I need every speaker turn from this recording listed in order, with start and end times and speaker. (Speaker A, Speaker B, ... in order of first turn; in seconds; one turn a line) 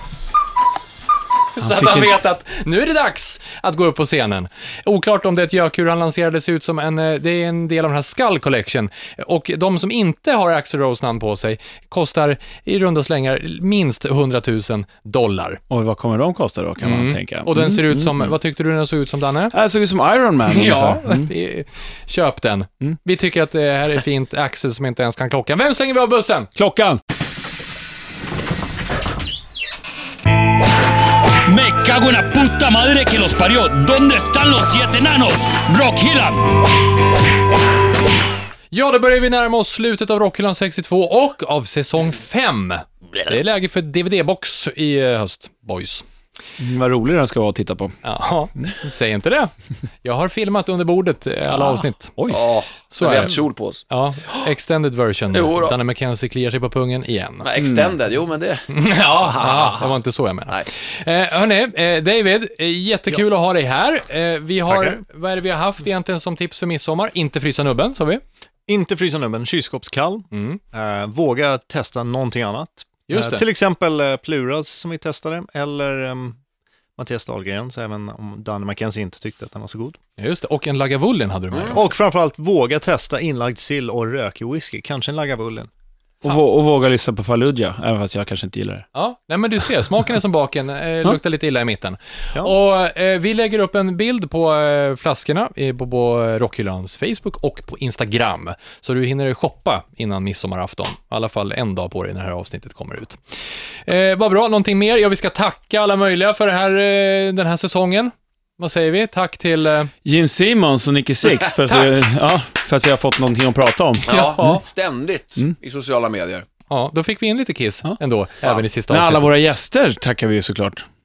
Speaker A: 1.6-15.6
Speaker B: 1.6-2.1
Speaker B: 15.7-18.4
Speaker A: 16.8-19.6
Speaker B: 19.5-21.3
Speaker A: 20.5-26.5
Speaker B: 26.6-27.0
Speaker C: 31.4-36.5
Speaker A: 38.7-46.1
Speaker B: 46.6-48.0
Speaker A: 48.0-49.5
Speaker A: 50.0-53.3
Speaker D: 52.3-54.5
Speaker A: 53.9-57.5
Speaker D: 55.3-55.8
Speaker D: 57.4-59.9
Speaker A: 58.7-68.2
Speaker E: 64.7-65.0
Speaker E: 68.7-76.4
Speaker A: 70.3-70.6
Speaker A: 73.1-73.5
Speaker E: 77.0-80.0
Speaker A: 80.2-81.9
Speaker D: 81.5-81.8
Speaker E: 81.7-85.7
Speaker B: 86.2-88.9
Speaker A: 88.9-103.2
Speaker A: 103.9-109.9
Speaker B: 110.0-114.6
Speaker A: 111.7-111.9
Speaker D: 114.0-116.5
Speaker A: 114.1-114.6
Speaker A: 116.7-119.3
Speaker B: 118.9-120.8